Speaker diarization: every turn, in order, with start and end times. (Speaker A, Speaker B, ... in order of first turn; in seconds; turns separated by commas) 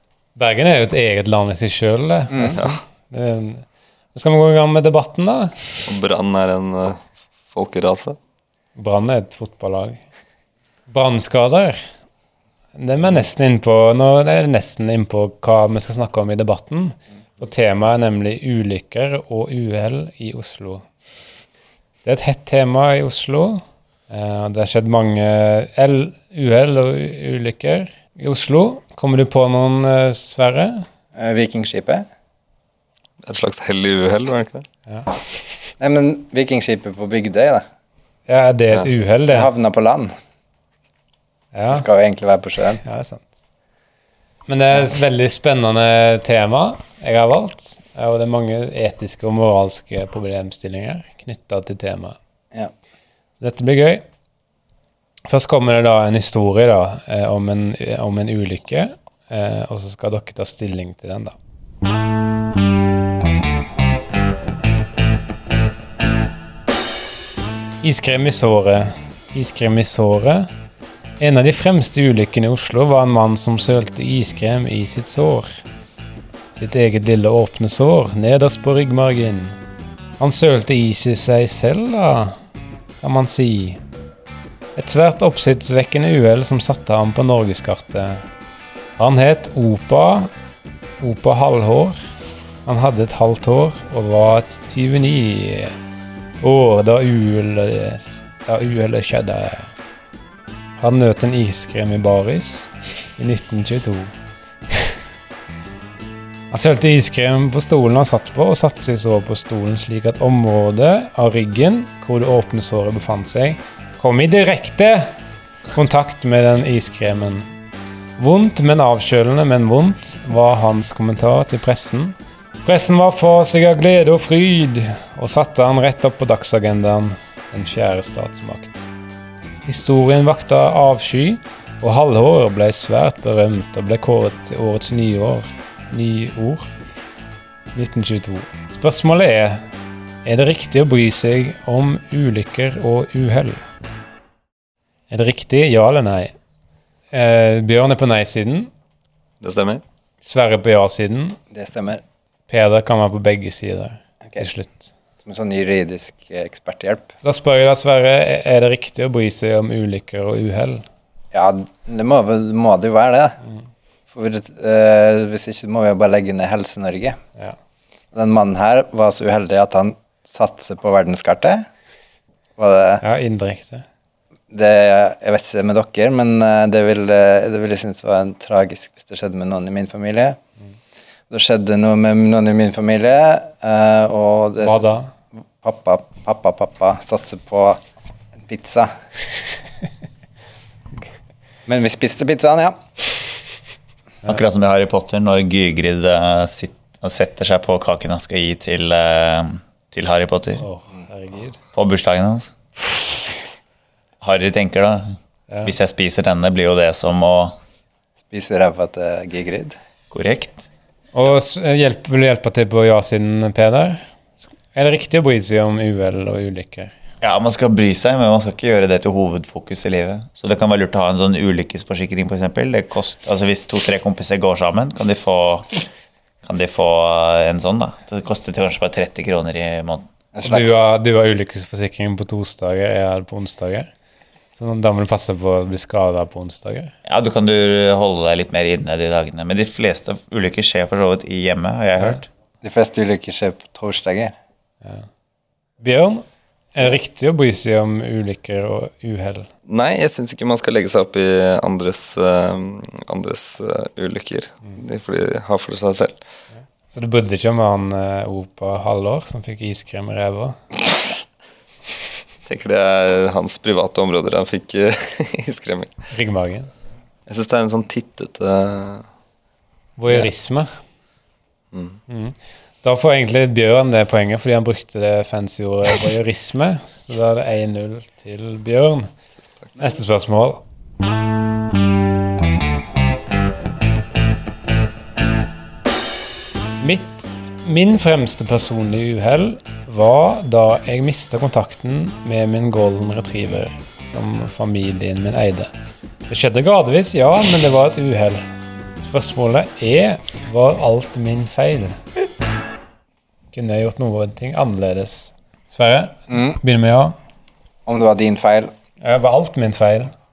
Speaker A: 0.4-5.5, Speaker B: 2.3-2.6, Speaker C: 2.5-2.8, Speaker C: 5.9-8.2, Speaker A: 8.8-10.0, Speaker A: 10.9-11.8, Speaker A: 12.8-20.9, Speaker A: 22.1-30.9, Speaker B: 31.1-32.1, Speaker C: 33.2-34.7, Speaker B: 35.8-37.6, Speaker A: 38.3-39.5, Speaker B: 39.3-40.1, Speaker A: 41.5-41.9, Speaker B: 41.7-42.8, Speaker A: 42.8-43.3, Speaker A: 44.5-52.2, Speaker A: 53.4-54.0, Speaker A: 55.3-61.4, Speaker A: 67.8-70.5, Speaker A: 71.2-75.6, Speaker A: 76.5-79.6, Speaker A: 80.2-82.4, Speaker A: 83.0-83.8, Speaker A: 84.8-88.2, Speaker A: 89.0-90.3, Speaker A: 91.0-92.0, Speaker A: 92.7-95.7, Speaker A: 96.4-99.7, Speaker A: 100.8-104.1, Speaker A: 106.5-115.1, Speaker A: 115.7-117.5, Speaker A: 118.2-128.8, Speaker A: 129.7-136.7, Speaker A: 137.7-139.7, Speaker A: 140.2-143.6, Speaker A: 145.1-146.3, Speaker A: 147.1-148.7, Speaker C: 149.4-149.8, Speaker A: 150.2-151.4, Speaker B: 151.5-152.0, Speaker A: 152.5-154.9, Speaker B: 155.2-157.1, Speaker A: 157.2-160.8, Speaker B: 161.3-163.4, Speaker B: 164.1-167.2, Speaker B: 168.1-171.7, Speaker B: 172.6-173.0, Speaker A: 173.0-173.8, Speaker B: 174.5-180.4, Speaker B: 181.3-184.9, Speaker A: 184.6-185.1, Speaker B: 185.6-187.8, Speaker B: 188.5-188.9, Speaker B: 191.7-192.8, Speaker D: 194.2-200.7, Speaker A: 200.6-201.6, Speaker D: 201.7-202.5, Speaker D: 204.2-205.1, Speaker D: 205.6-207.6, Speaker B: 208.3-209.8, Speaker D: 210.1-210.7, Speaker A: 211.1-214.0, Speaker A: 214.7-216.9, Speaker D: 217.2-225.8, Speaker D: 226.4-230.1, Speaker B: 230.3-230.7, Speaker A: 230.4-233.9, Speaker A: 234.5-236.9, Speaker D: 237.1-242.3, Speaker B: 242.6-244.3, Speaker A: 245.8-249.5, Speaker C: 249.7-256.2, Speaker A: 256.9-260.6, Speaker C: 262.5-265.9, Speaker A: 266.1-266.7, Speaker C: 267.3-269.1, Speaker A: 270.0-270.7, Speaker C: 271.7-272.0, Speaker A: 272.1-279.1, Speaker A: 279.8-280.6, Speaker A: 286.8-295.7, Speaker A: 296.3-298.4, Speaker A: 299.0-302.0, Speaker A: 303.5-307.1, Speaker B: 306.3-306.6, Speaker B: 307.9-308.7, Speaker A: 309.0-310.1